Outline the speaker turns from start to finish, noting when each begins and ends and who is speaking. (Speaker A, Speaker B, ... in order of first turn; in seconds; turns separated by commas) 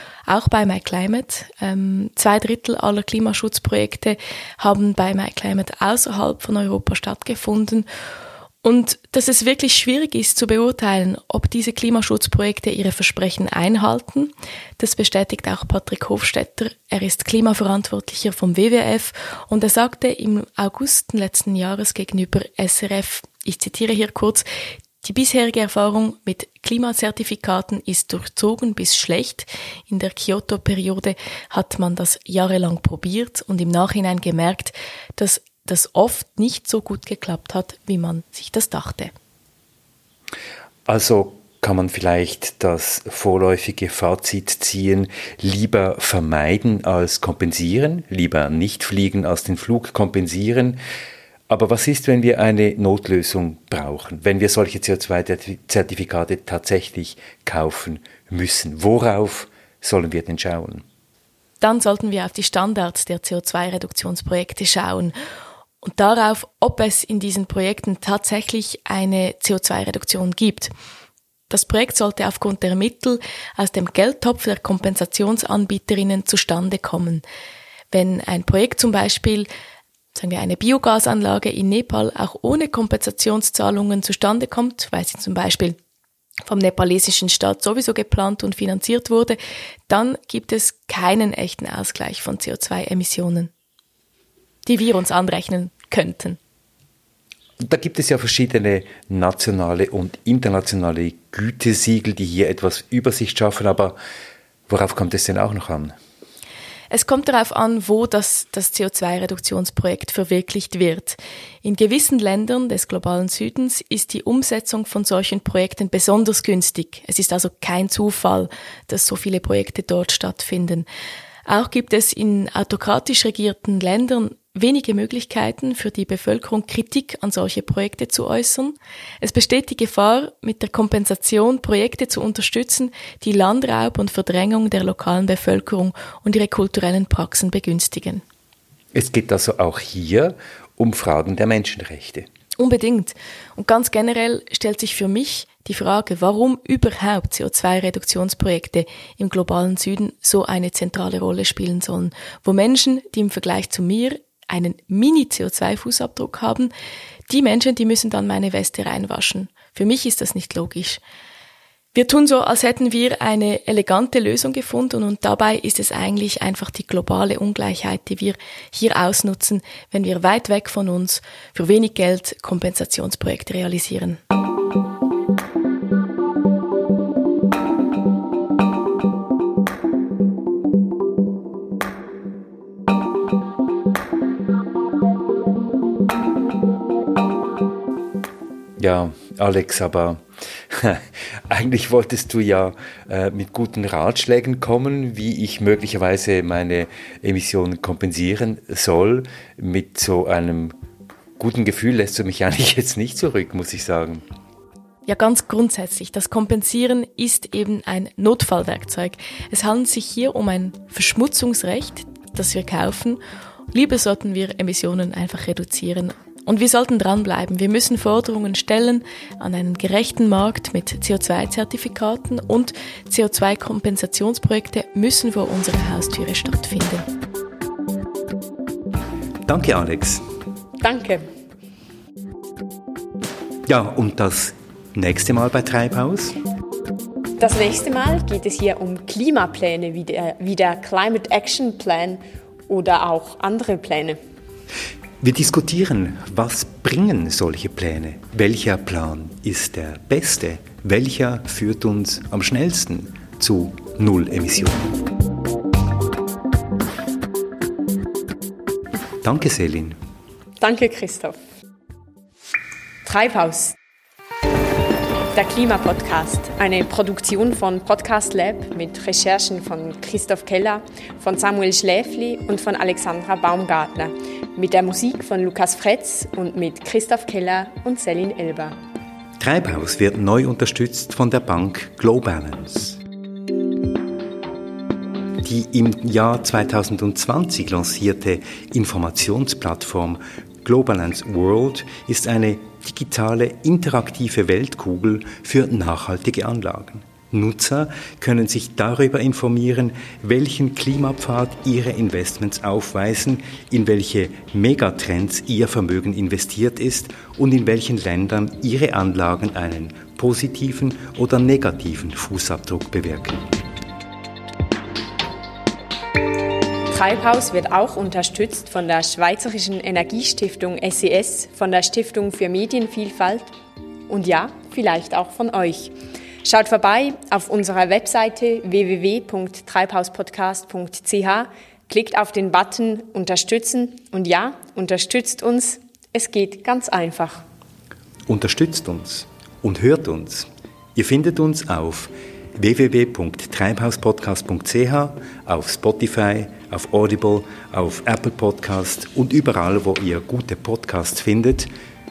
Speaker A: 0.3-7.9, Speaker A: 8.6-24.5, Speaker A: 25.0-39.1, Speaker B: 40.9-50.8, Speaker B: 51.5-60.8, Speaker A: 61.6-65.2, Speaker A: 65.8-70.7, Speaker A: 71.5-77.2, Speaker A: 77.9-79.5, Speaker A: 80.2-85.8, Speaker A: 86.5-93.5, Speaker A: 94.7-96.4, Speaker B: 97.6-104.0, Speaker B: 104.7-105.9, Speaker A: 106.9-120.9, Speaker A: 121.5-138.2, Speaker B: 138.9-142.3, Speaker A: 142.6-156.7, Speaker A: 157.3-161.0, Speaker A: 161.9-174.2, Speaker B: 188.8-200.7, Speaker B: 201.4-204.2, Speaker A: 205.1-213.2, Speaker A: 213.7-227.1, Speaker B: 229.5-230.2, Speaker C: 230.8-231.3, Speaker B: 233.7-236.4, Speaker C: 237.4-244.2, Speaker B: 245.2-254.9, Speaker B: 259.2-260.0, Speaker C: 260.6-261.4, Speaker C: 263.0-263.8, Speaker C: 265.3-278.8, Speaker B: 279.4-283.0, Speaker B: 285.4-313.4, Speaker C: 316.9-323.5, Speaker C: 324.1-337.4, Speaker B: 338.3-351.7